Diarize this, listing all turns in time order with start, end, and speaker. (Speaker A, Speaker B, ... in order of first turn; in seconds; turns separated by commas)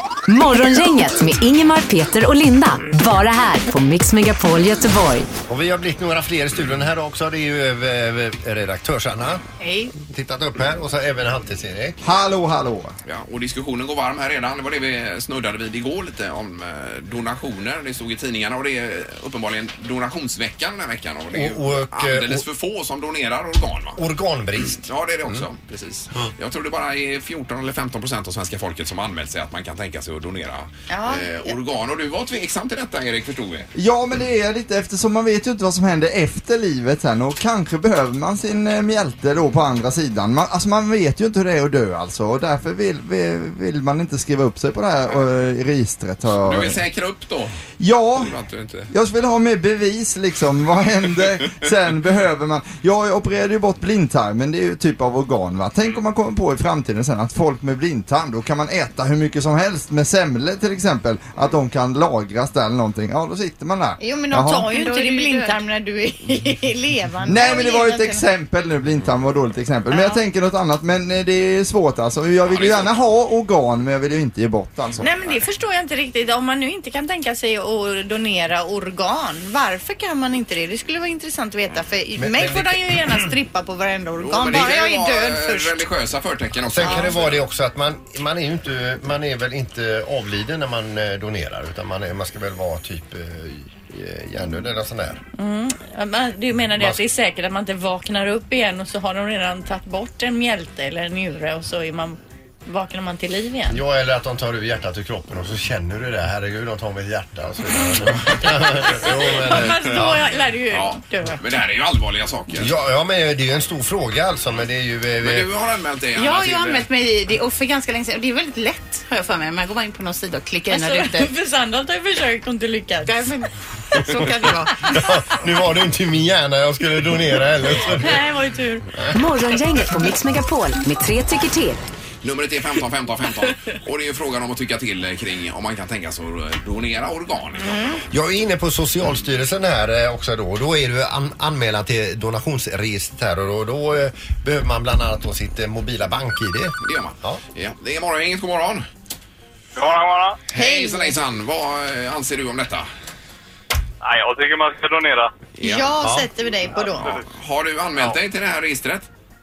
Speaker A: 0.3-5.3, Speaker B: 5.5-9.4, Speaker C: 9.6-9.9, Speaker B: 10.0-12.0, Speaker D: 12.0-12.9, Speaker E: 13.0-24.0, Speaker B: 21.3-22.4, Speaker B: 24.0-25.4, Speaker E: 24.6-33.7, Speaker C: 30.9-31.6, Speaker D: 33.7-46.8, Speaker E: 46.3-47.6, Speaker D: 47.8-48.3, Speaker E: 48.1-48.9, Speaker D: 48.9-64.7, Speaker C: 64.0-68.2, Speaker F: 64.7-65.6, Speaker D: 67.2-75.1, Speaker C: 69.9-70.2, Speaker E: 72.5-73.0, Speaker C: 75.0-85.8, Speaker B: 82.2-83.0, Speaker E: 84.2-87.4, Speaker B: 86.7-95.2, Speaker C: 86.8-87.1, Speaker C: 95.3-103.8, Speaker B: 103.7-110.2, Speaker C: 108.8-111.4, Speaker E: 110.7-112.7, Speaker B: 112.5-115.5, Speaker E: 115.2-116.9, Speaker F: 116.2-121.3, Speaker C: 120.7-123.2, Speaker F: 123.0-124.7, Speaker B: 124.9-128.2, Speaker C: 127.9-128.8, Speaker A: 129.1-131.8, Speaker E: 132.2-138.0, Speaker B: 138.1-147.4, Speaker E: 146.8-148.9, Speaker G: 149.8-150.4, Speaker E: 150.5-152.9, Speaker C: 150.5-151.2, Speaker G: 154.0-155.3, Speaker E: 155.6-155.9, Speaker C: 155.6-157.1, Speaker B: 156.0-156.3, Speaker G: 156.9-157.2, Speaker E: 156.9-159.1